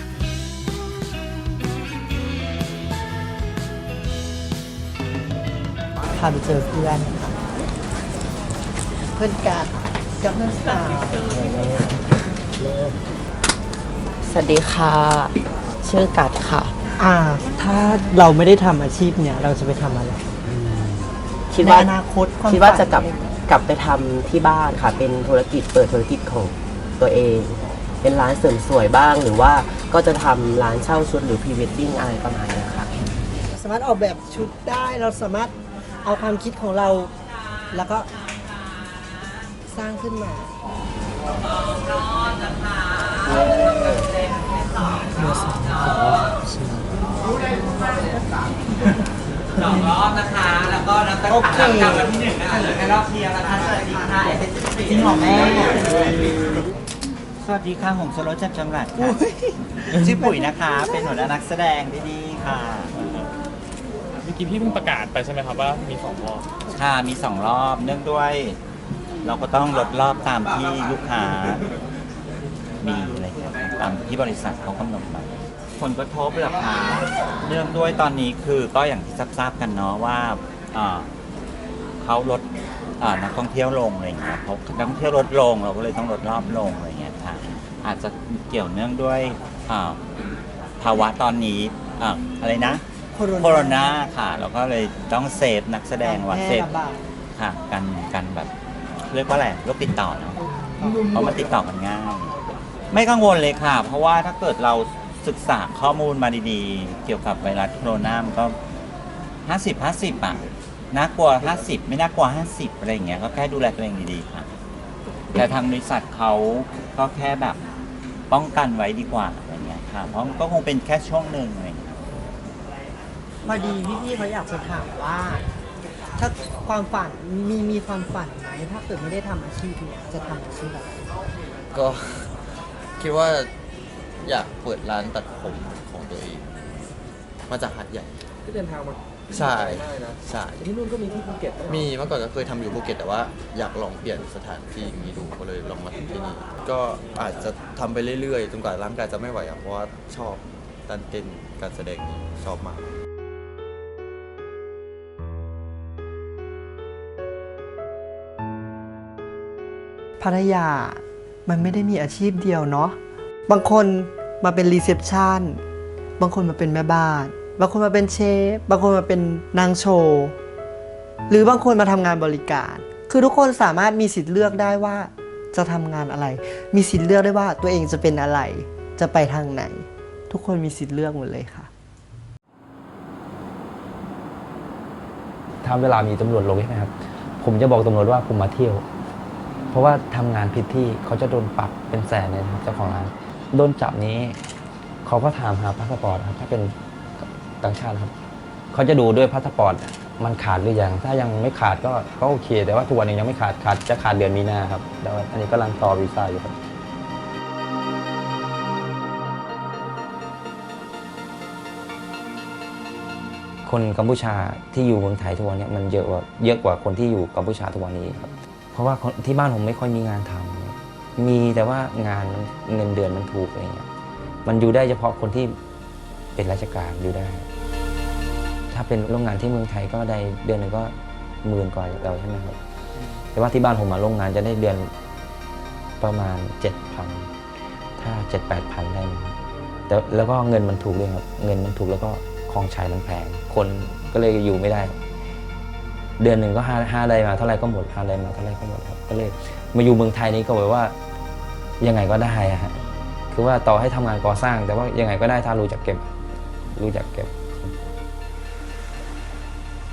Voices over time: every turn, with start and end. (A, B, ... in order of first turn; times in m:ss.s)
0:06.1-0:07.4 A
0:09.2-0:11.6 A
0:11.3-0:11.9 B
0:12.6-0:12.9 B
0:14.2-0:16.7 B
0:17.0-0:20.3 A
0:20.4-0:21.9 B
0:21.6-0:23.4 A
0:22.4-0:32.9 B
0:33.5-0:37.1 A
0:37.7-0:38.1 A
0:39.7-0:40.5 A
0:45.2-0:46.3 A
0:49.6-0:56.3 C
0:57.4-0:59.2 C
0:59.8-1:03.3 C
1:04.2-1:06.4 D
1:06.7-1:08.6 C
1:09.2-1:11.6 C
1:12.8-1:21.1 C
1:22.0-1:22.5 C
1:23.0-1:30.0 C
1:30.8-1:32.8 C
1:33.1-1:34.1 A
1:33.4-1:36.7 C
1:36.0-1:37.0 A
1:37.4-1:38.5 C
1:39.0-1:40.4 C
1:41.1-1:42.4 C
1:42.9-1:48.6 C
1:49.4-1:54.5 C
1:55.3-1:57.6 C
1:58.3-2:02.0 C
2:03.4-2:05.4 A
2:06.2-2:10.9 A
2:11.8-2:12.2 E
2:13.0-2:13.5 E
2:14.2-2:16.4 E
2:17.5-2:18.1 E
2:18.4-2:21.9 F
2:19.3-2:19.7 E
2:20.3-2:20.5 E
2:21.8-2:32.8 E
2:40.2-2:43.0 A
2:43.5-2:45.6 A
2:46.2-2:50.4 A
2:51.3-3:01.7 A
3:05.6-3:08.8 G
3:09.7-3:14.4 G
3:15.0-3:18.1 G
3:18.7-3:26.5 G
3:33.6-3:43.9 G
3:44.4-3:45.6 G
3:46.3-3:47.5 G
3:48.7-3:52.6 G
3:53.3-3:54.9 G
3:56.0-3:57.3 G
3:58.0-3:59.4 G
3:59.9-4:05.0 G
4:06.2-4:10.9 G
4:11.8-4:12.7 G
4:13.3-4:16.1 G
4:16.7-4:17.8 G